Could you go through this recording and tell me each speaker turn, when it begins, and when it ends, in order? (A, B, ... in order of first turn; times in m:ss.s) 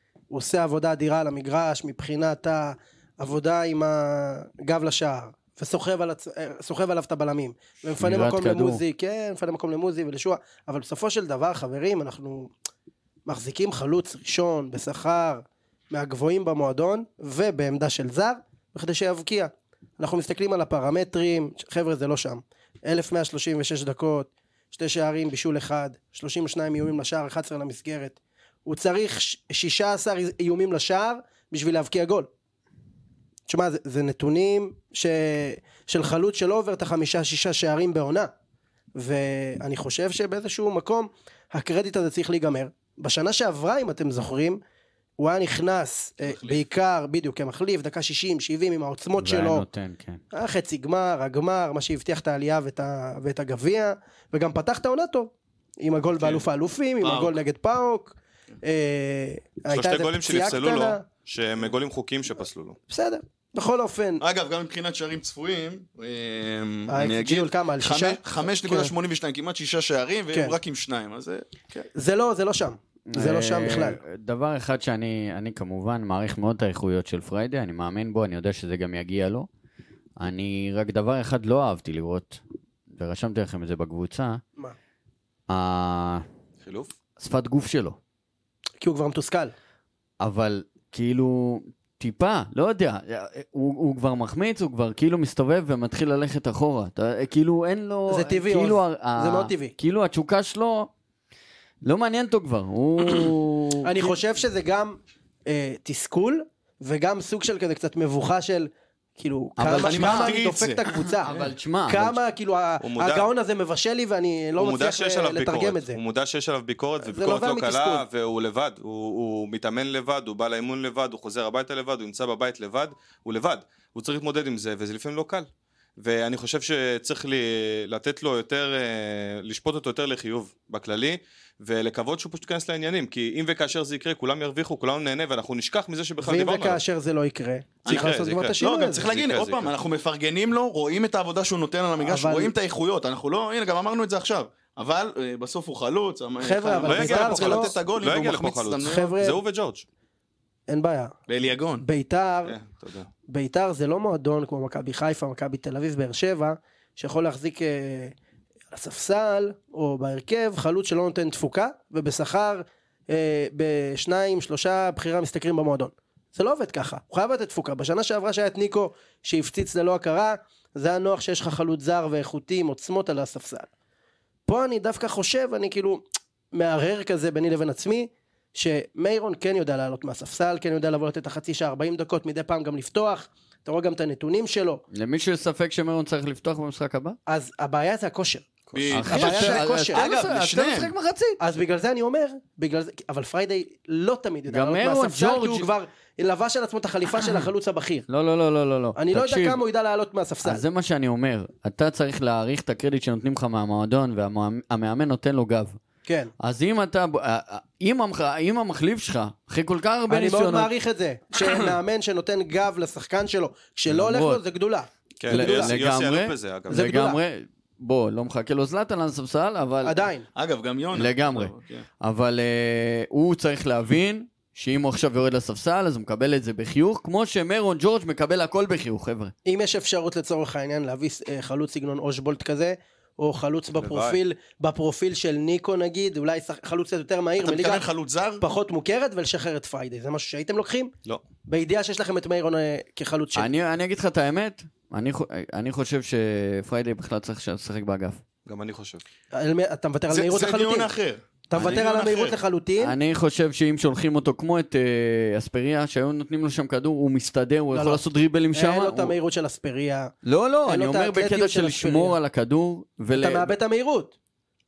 0:00.3-0:12.5 A
0:08.0-0:08.8 B
0:13.3-0:32.3 A
0:33.5-0:38.3 A
0:39.0-0:44.6 A
0:45.2-0:49.6 A
0:46.2-0:46.6 C
0:49.2-0:50.2 B
0:50.3-1:01.0 A
0:57.0-0:57.4 C
0:59.7-1:02.8 D
1:02.9-1:04.2 A
1:04.2-1:11.9 C
1:06.9-1:08.9 A
1:10.3-1:10.6 A
1:12.0-1:14.0 A
1:13.1-1:19.5 B
1:20.2-1:24.4 B
1:25.5-1:26.2 B
1:26.6-1:26.9 D
1:27.2-1:28.0 B
1:28.8-1:29.5 A
1:30.2-1:40.9 B
1:38.1-1:39.8 A
1:41.8-1:44.2 B
1:43.8-1:51.3 A
1:49.6-1:50.3 B
1:49.7-1:51.5 C
1:51.0-1:52.2 B
1:51.9-1:56.0 A
1:52.8-1:53.3 D
1:54.6-2:16.8 D
1:57.0-1:58.0 A
2:16.2-2:19.1 A
2:17.9-2:19.7 D
2:17.9-2:29.1 C
2:22.0-2:22.5 A
2:26.4-2:27.7 A
2:26.8-2:29.8 D
2:28.8-2:29.4 A
2:30.7-2:31.2 A
2:31.3-2:31.8 C
2:31.8-2:32.6 A
2:32.5-2:33.1 D
2:33.3-2:38.2 A
2:38.7-2:53.7 A
2:54.5-3:04.8 A
3:04.9-3:07.2 B
3:07.3-3:10.0 A
3:08.7-3:10.9 C
3:08.9-3:11.4 B
3:11.4-3:18.1 A
3:14.5-3:15.7 B
3:17.2-3:17.4 B
3:18.1-3:19.6 B
3:19.0-3:20.6 A
3:20.4-3:25.8 B
3:26.1-3:26.3 A
3:26.4-3:30.7 B
3:30.1-3:35.8 A
3:33.9-3:34.4 B
3:35.2-3:36.8 D
3:35.3-3:40.0 B
3:36.7-3:37.2 A
3:39.8-3:40.3 A
3:40.4-3:41.9 C
3:40.9-3:49.3 B
3:49.4-3:57.9 A
3:53.8-3:54.2 D
3:57.4-3:58.4 C
3:58.4-4:00.9 A
4:01.5-4:03.5 A
4:03.4-4:08.2 B
4:08.5-4:09.0 D
4:09.3-4:10.9 A
4:10.1-4:12.4 C
4:11.5-4:13.0 A
4:12.8-4:19.2 B
4:17.7-4:18.0 A
4:18.5-4:20.1 A
4:20.2-4:23.5 B
4:20.6-4:22.2 A
4:23.2-4:24.1 A